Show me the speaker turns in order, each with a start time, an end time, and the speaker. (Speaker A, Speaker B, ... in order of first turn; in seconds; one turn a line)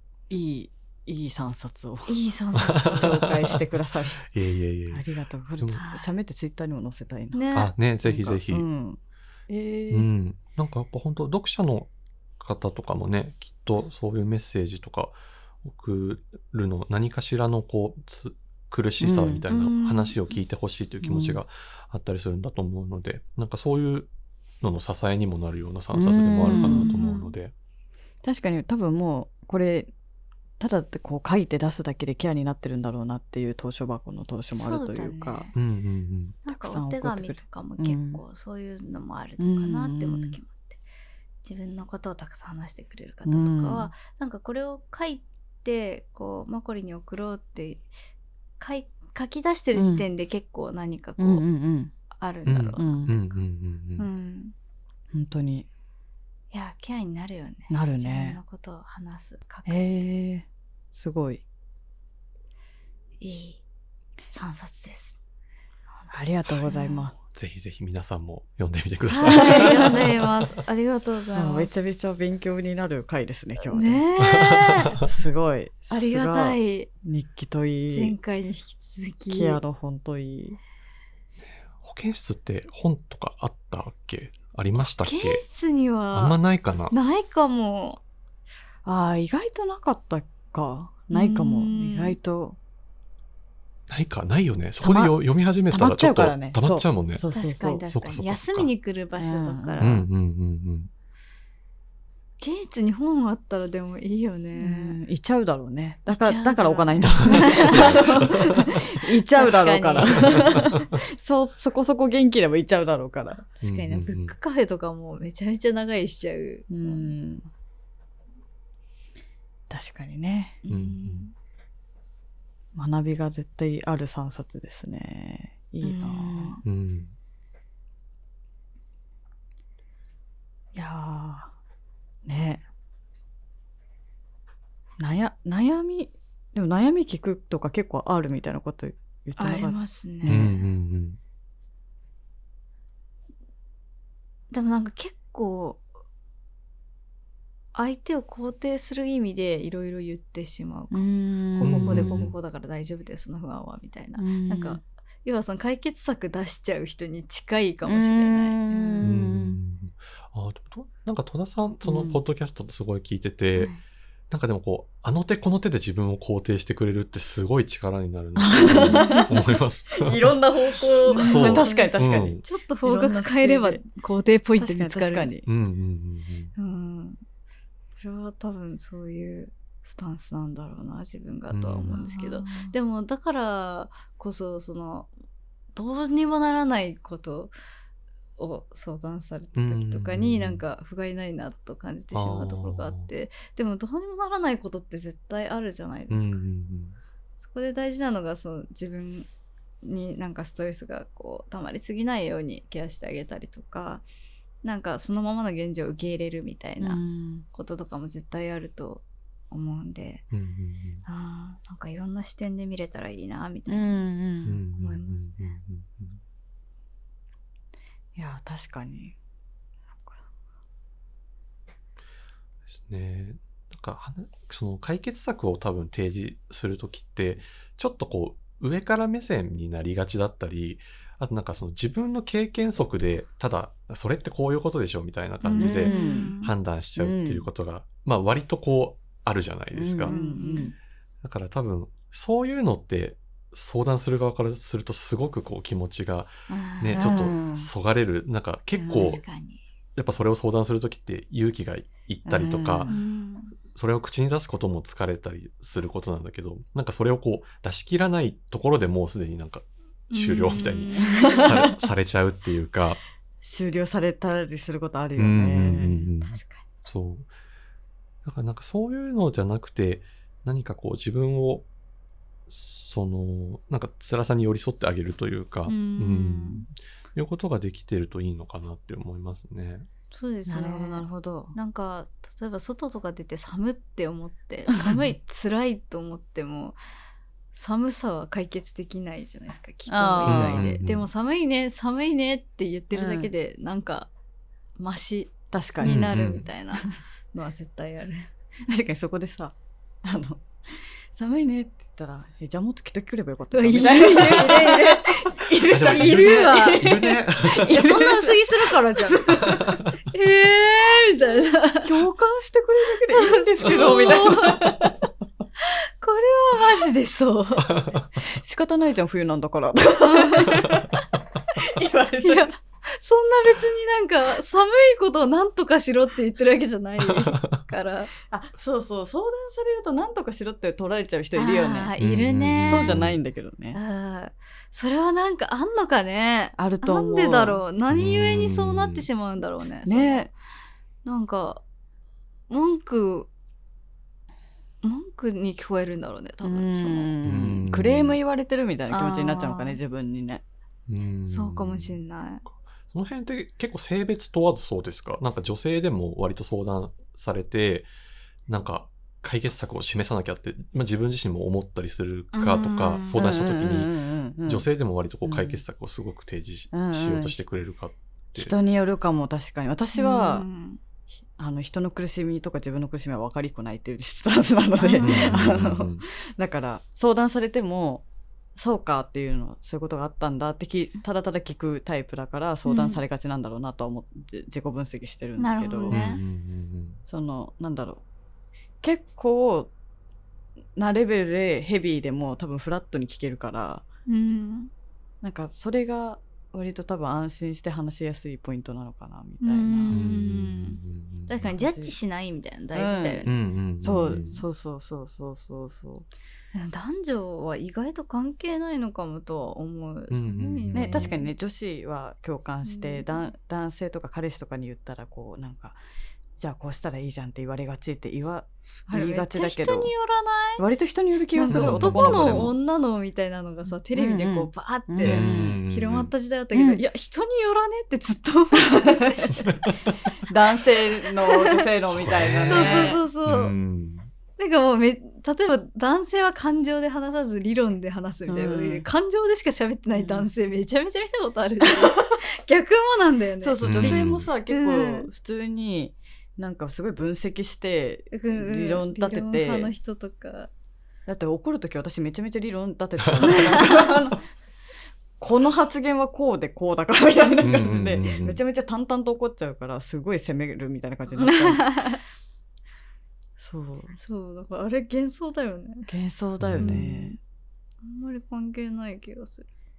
Speaker A: 0.3-4.3
Speaker B: 2.1-3.2
Speaker C: 2.6-5.1
Speaker A: 4.9-7.4
Speaker B: 5.7-6.1
Speaker B: 7.3-7.7
Speaker C: 7.5-8.7
Speaker A: 8.0-10.1
Speaker C: 9.9-24.1
Speaker A: 19.0-19.4
Speaker B: 19.5-20.4
Speaker A: 21.0-21.4
Speaker C: 24.6-27.5
Speaker A: 25.9-26.9
Speaker B: 26.5-27.3
Speaker A: 28.2-29.9
Speaker A: 30.6-35.5
Speaker B: 34.5-35.5
Speaker C: 35.5-36.4
Speaker B: 36.5-40.8
Speaker A: 36.5-38.2
Speaker A: 39.4-40.4
Speaker B: 41.4-47.9
Speaker A: 43.2-43.9
Speaker B: 48.6-51.5
Speaker A: 49.7-50.0
Speaker A: 51.2-51.9
Speaker B: 52.1-53.4
Speaker C: 52.5-54.1
Speaker A: 52.8-53.1
Speaker B: 54.0-54.5
Speaker A: 55.1-55.7
Speaker B: 56.5-60.0
Speaker A: 57.7-58.4
Speaker A: 59.7-61.4
Speaker B: 63.2-63.6
Speaker B: 64.3-65.2
Speaker B: 65.9-67.1
Speaker A: 66.1-67.2
Speaker C: 67.3-70.4
Speaker B: 69.1-71.8
Speaker A: 69.3-70.0
Speaker A: 71.3-74.1
Speaker B: 73.7-75.0
Speaker C: 74.2-75.0
Speaker A: 75.0-78.2
Speaker B: 75.9-76.9
Speaker B: 77.9-79.6
Speaker A: 79.3-80.6
Speaker C: 81.5-85.4
Speaker B: 84.8-88.0
Speaker C: 86.1-87.0
Speaker A: 88.8-92.6
Speaker B: 91.1-92.2
Speaker C: 93.9-97.2
Speaker A: 94.8-97.9
Speaker B: 97.3-100.1
Speaker C: 97.9-98.7
Speaker A: 99.2-99.8
Speaker C: 99.8-100.9
Speaker B: 102.4-105.0
Speaker A: 104.6-113.5
Speaker B: 106.1-110.6
Speaker C: 107.3-108.7
Speaker C: 110.6-110.9
Speaker B: 113.6-117.1
Speaker C: 113.6-114.4
Speaker A: 116.7-117.5
Speaker A: 119.7-120.6
Speaker B: 120.6-121.3
Speaker C: 120.7-121.3
Speaker A: 122.8-126.6
Speaker B: 125.8-126.6
Speaker C: 126.6-127.2
Speaker A: 130.8-131.5
Speaker A: 132.2-132.7
Speaker A: 135.0-140.5
Speaker B: 139.4-140.6
Speaker C: 140.3-141.2
Speaker B: 144.5-145.8
Speaker B: 147.7-159.1
Speaker A: 150.9-152.3
Speaker C: 151.6-152.3
Speaker A: 154.2-154.8
Speaker A: 157.8-159.6
Speaker C: 159.0-163.7
Speaker A: 161.8-162.2
Speaker B: 163.6-163.8
Speaker C: 164.3-170.4
Speaker A: 168.4-169.3
Speaker B: 168.9-169.3
Speaker A: 169.9-173.8
Speaker B: 171.1-175.4
Speaker C: 171.2-172.4
Speaker A: 174.6-175.5
Speaker C: 175.5-176.5
Speaker B: 176.6-177.2
Speaker B: 178.0-185.1
Speaker C: 181.5-182.1
Speaker A: 181.9-182.7
Speaker B: 185.7-187.5
Speaker B: 188.4-196.4
Speaker C: 189.6-190.6
Speaker C: 192.1-193.1
Speaker C: 196.1-197.0
Speaker B: 197.4-199.3
Speaker B: 199.8-204.1
Speaker B: 204.6-210.2
Speaker A: 206.8-207.5
Speaker C: 210.3-211.0
Speaker B: 211.1-214.0
Speaker A: 213.7-214.6
Speaker C: 214.5-216.2
Speaker B: 214.8-215.5
Speaker A: 218.2-219.2
Speaker A: 219.9-220.2
Speaker C: 222.7-240.2
Speaker B: 235.4-236.5
Speaker A: 235.6-236.3
Speaker A: 237.0-237.5
Speaker A: 239.7-240.8
Speaker B: 240.1-240.7
Speaker C: 241.2-249.2
Speaker B: 246.5-247.3
Speaker A: 246.9-247.7
Speaker A: 248.8-249.2
Speaker B: 248.9-249.6
Speaker C: 250.0-252.9
Speaker A: 252.3-253.0
Speaker B: 252.9-253.5
Speaker C: 253.7-263.0
Speaker B: 260.1-261.5
Speaker A: 261.0-261.8
Speaker A: 263.4-266.1
Speaker C: 265.2-267.3
Speaker B: 266.2-266.6
Speaker C: 268.2-271.7
Speaker C: 272.5-279.9
Speaker B: 275.7-276.7
Speaker B: 280.1-286.8
Speaker A: 280.5-281.6
Speaker B: 287.5-294.1
Speaker A: 289.9-290.7
Speaker C: 290.3-291.1
Speaker A: 292.9-293.3
Speaker B: 294.8-298.3
Speaker A: 295.5-296.1
Speaker C: 295.8-296.5
Speaker A: 298.7-309.8
Speaker B: 303.5-306.9
Speaker C: 305.7-307.9
Speaker B: 307.6-312.0
Speaker C: 309.4-309.9
Speaker A: 311.8-314.9
Speaker B: 313.1-314.9
Speaker B: 315.6-317.8
Speaker C: 317.7-318.1
Speaker A: 318.2-320.9
Speaker B: 320.0-320.8
Speaker A: 321.6-322.5
Speaker B: 322.2-328.1
Speaker C: 327.0-327.6
Speaker A: 328.3-331.9
Speaker B: 331.4-333.1
Speaker C: 332.0-333.2
Speaker A: 332.6-333.8
Speaker B: 333.7-340.3
Speaker A: 336.6-337.6
Speaker C: 337.9-339.1
Speaker A: 339.9-340.3
Speaker B: 341.1-341.6
Speaker B: 342.5-343.3
Speaker B: 344.8-347.1
Speaker A: 346.4-350.4
Speaker C: 347.2-348.2
Speaker B: 348.9-349.8
Speaker C: 350.9-357.9
Speaker B: 351.3-352.4
Speaker C: 358.5-363.9
Speaker B: 362.3-363.2
Speaker A: 363.1-364.7
Speaker C: 364.5-368.5
Speaker A: 365.2-365.6
Speaker A: 366.7-367.4
Speaker A: 368.4-370.5
Speaker B: 369.9-370.8
Speaker A: 371.4-386.0
Speaker B: 374.8-375.6
Speaker C: 375.0-376.1
Speaker B: 382.6-383.0
Speaker B: 385.4-386.2
Speaker C: 385.9-387.0
Speaker A: 387.1-388.0
Speaker A: 388.8-389.7
Speaker A: 390.8-393.8
Speaker B: 394.1-394.7
Speaker A: 395.2-400.0
Speaker B: 399.4-403.3
Speaker C: 399.9-401.5
Speaker A: 401.4-401.9
Speaker A: 402.7-406.1
Speaker C: 403.2-404.4
Speaker B: 406.5-411.3
Speaker C: 410.1-411.1
Speaker A: 410.7-415.8
Speaker B: 412.6-413.3
Speaker A: 416.4-419.9
Speaker B: 418.9-420.6
Speaker A: 420.6-422.6
Speaker B: 421.3-429.4
Speaker C: 421.5-422.5
Speaker A: 423.9-425.6
Speaker C: 425.0-426.1
Speaker A: 426.5-426.8
Speaker A: 428.7-429.4
Speaker C: 429.5-429.7
Speaker A: 430.3-433.0
Speaker C: 431.9-434.1
Speaker B: 432.5-433.6
Speaker B: 434.4-445.1
Speaker A: 438.3-438.9
Speaker A: 439.9-440.3
Speaker A: 443.4-449.7
Speaker C: 443.6-444.3
Speaker B: 448.1-450.5
Speaker A: 451.1-454.2
Speaker B: 453.2-453.9
Speaker A: 455.2-461.9
Speaker C: 457.4-458.4
Speaker B: 461.2-462.0
Speaker A: 463.4-464.0
Speaker B: 464.0-465.9
Speaker A: 465.9-467.2
Speaker C: 466.4-466.8
Speaker B: 466.6-467.2
Speaker B: 467.8-469.5